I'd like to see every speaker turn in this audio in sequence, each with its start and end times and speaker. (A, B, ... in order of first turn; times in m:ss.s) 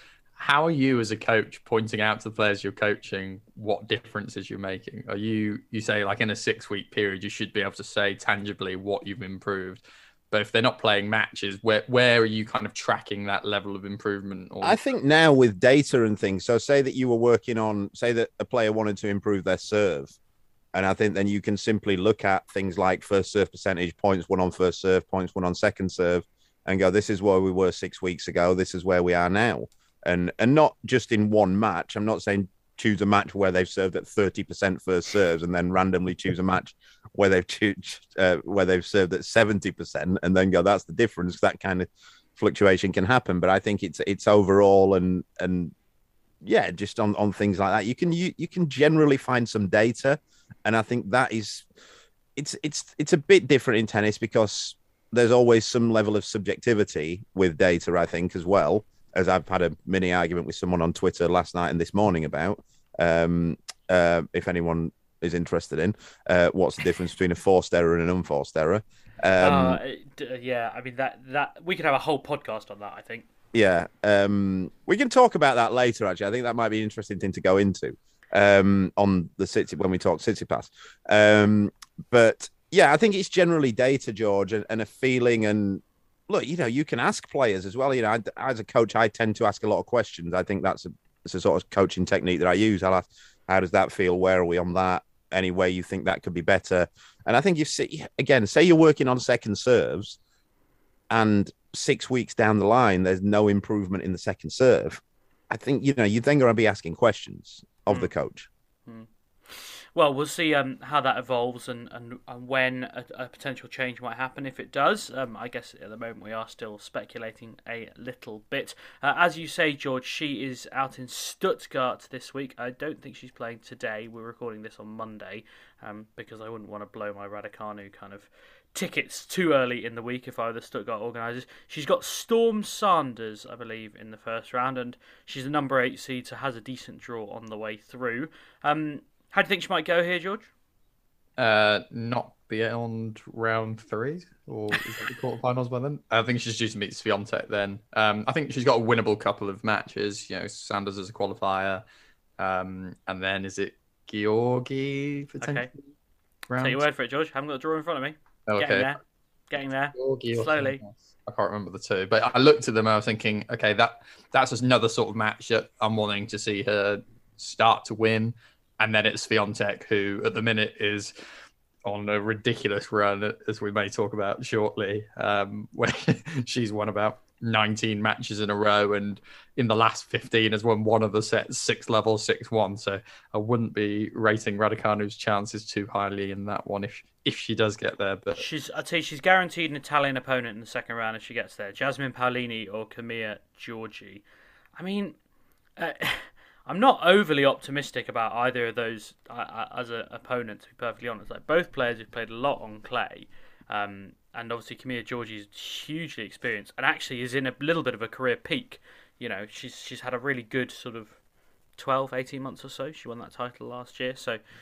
0:00.4-0:14.8 A
0:14.6-0:20.2 B
0:20.7-0:45.7 B
0:46.4-0:51.6 B
0:52.4-1:09.8 B
1:09.4-1:13.2 C
1:13.5-1:40.2 B
1:41.1-1:48.5 B
1:48.9-2:20.5 C
2:21.4-2:31.8 A
2:32.4-2:35.8 A
2:35.4-2:35.7 C
2:36.5-2:36.8 A
2:36.6-2:39.0 C
2:38.5-2:38.9 A
2:39.5-2:40.8 C
2:39.9-2:51.1 A
2:51.8-3:08.4 A
3:08.4-3:14.2 C
3:14.8-3:15.2 C
3:15.8-3:31.2 C
3:31.8-3:34.4 C